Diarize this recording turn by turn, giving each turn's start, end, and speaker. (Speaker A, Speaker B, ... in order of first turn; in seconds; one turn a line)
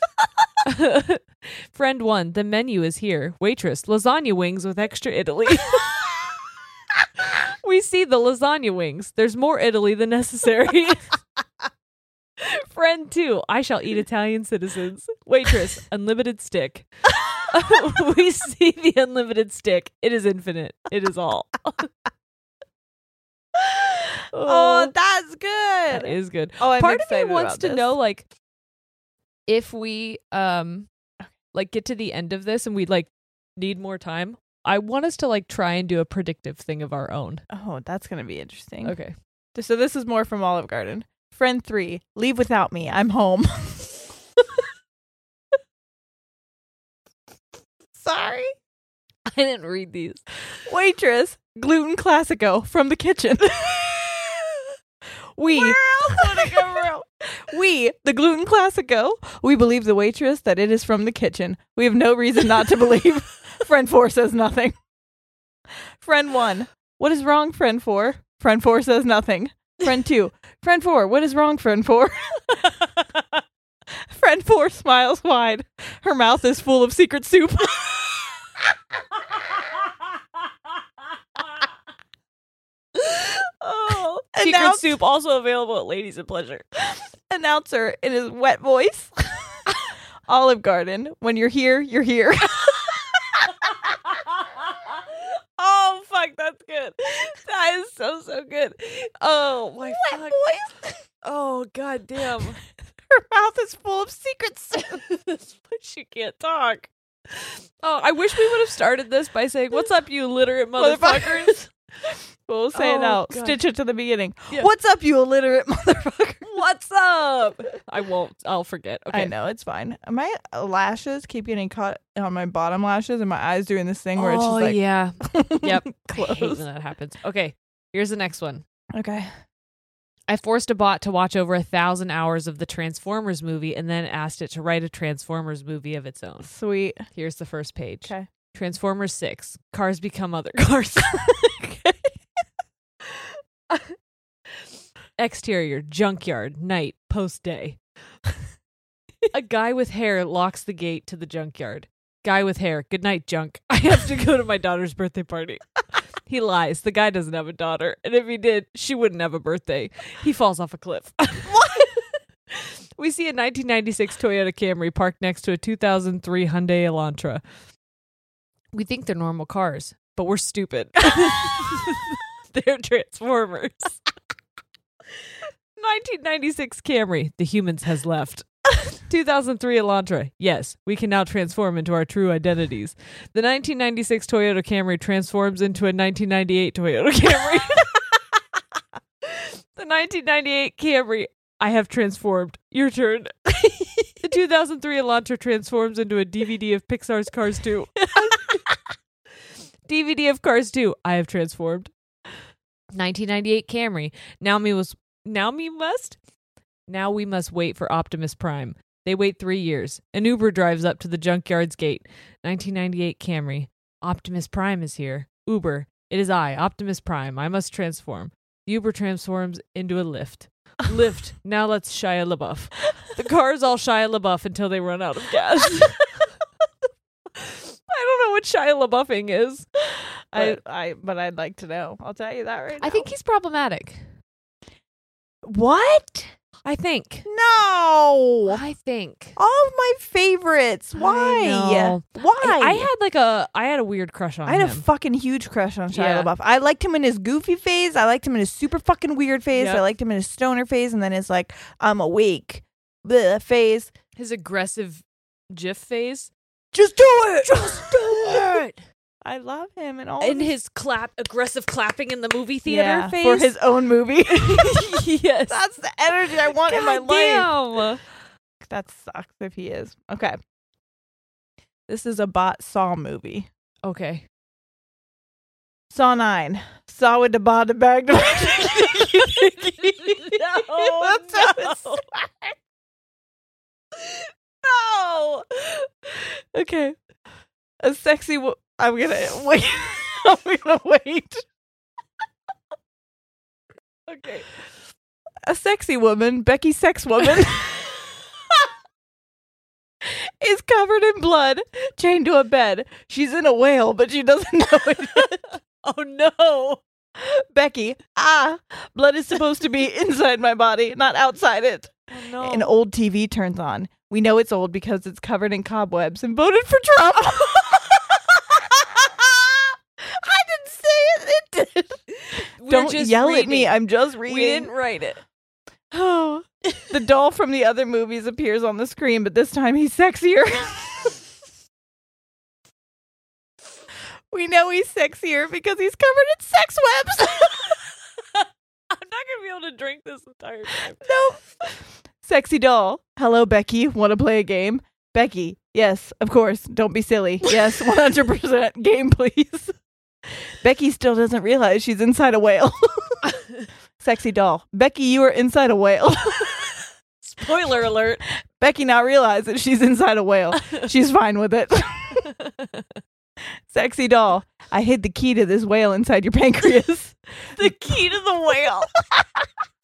Speaker A: 0.6-5.9
Speaker A: 7.6-11.1
Speaker A: 12.4-16.9
Speaker A: 17.4-21.9
Speaker A: 24.3-24.9
Speaker B: 24.4-27.9
Speaker A: 25.9-28.2
Speaker A: 29.5-30.9
Speaker A: 31.5-37.4
Speaker B: 37.5-39.0
Speaker A: 38.8-39.1
Speaker B: 39.5-44.0
Speaker B: 48.0-48.5
Speaker A: 49.3-50.2
Speaker B: 50.7-54.4
Speaker B: 55.4-64.7
Speaker B: 66.0-72.7
Speaker B: 74.1-78.2
Speaker A: 83.6-86.7
Speaker B: 84.3-84.9
Speaker B: 87.3-89.8
Speaker B: 90.3-92.9
Speaker A: 95.6-100.4
Speaker A: 101.2-102.6
Speaker B: 103.1-105.0
Speaker A: 104.9-106.9
Speaker A: 107.8-111.6
Speaker B: 110.8-111.6
Speaker B: 112.5-116.4
Speaker A: 112.7-113.6
Speaker A: 116.4-119.3
Speaker B: 119.1-126.6
Speaker A: 124.2-128.6
Speaker B: 128.9-129.3
Speaker A: 130.3-136.5
Speaker B: 136.4-137.1
Speaker A: 137.1-141.4
Speaker B: 141.3-141.9
Speaker A: 145.2-147.8
Speaker A: 149.3-161.9
Speaker A: 163.0-167.4
Speaker A: 168.7-174.0
Speaker A: 175.8-178.5
Speaker A: 179.1-188.0
Speaker A: 189.3-193.5
Speaker A: 194.2-198.6
Speaker A: 199.9-201.9
Speaker A: 202.9-206.2
Speaker A: 206.9-226.3
Speaker A: 227.4-229.7
Speaker B: 230.3-233.1
Speaker A: 230.3-230.6
Speaker A: 232.8-234.1
Speaker B: 235.4-236.3
Speaker A: 236.6-237.3
Speaker B: 237.2-238.6
Speaker A: 238.4-239.4
Speaker B: 239.4-242.9
Speaker A: 240.9-244.9
Speaker B: 244.4-253.9
Speaker A: 245.9-246.3
Speaker A: 249.5-249.8
Speaker A: 254.2-258.8
Speaker B: 256.8-258.6
Speaker B: 259.2-260.5
Speaker A: 260.2-263.6
Speaker B: 262.6-267.6
Speaker A: 264.3-265.6
Speaker A: 266.6-268.0
Speaker B: 268.6-270.4
Speaker B: 271.9-273.5
Speaker A: 273.8-274.2
Speaker B: 275.9-282.5
Speaker A: 278.3-282.0
Speaker B: 284.6-285.4
Speaker B: 286.1-286.9
Speaker B: 287.8-291.4
Speaker A: 294.1-294.5
Speaker B: 295.4-297.8
Speaker B: 300.0-305.4
Speaker A: 305.8-306.8
Speaker B: 307.2-322.0
Speaker A: 312.1-312.7
Speaker A: 322.2-325.2
Speaker B: 322.6-324.7
Speaker B: 325.9-331.2
Speaker B: 334.3-337.8
Speaker A: 338.9-341.1
Speaker B: 341.0-349.7
Speaker B: 350.6-353.2
Speaker B: 354.0-356.7
Speaker A: 357.2-358.2
Speaker B: 358.6-362.3
Speaker A: 362.3-362.8
Speaker B: 363.7-369.2
Speaker A: 367.6-368.9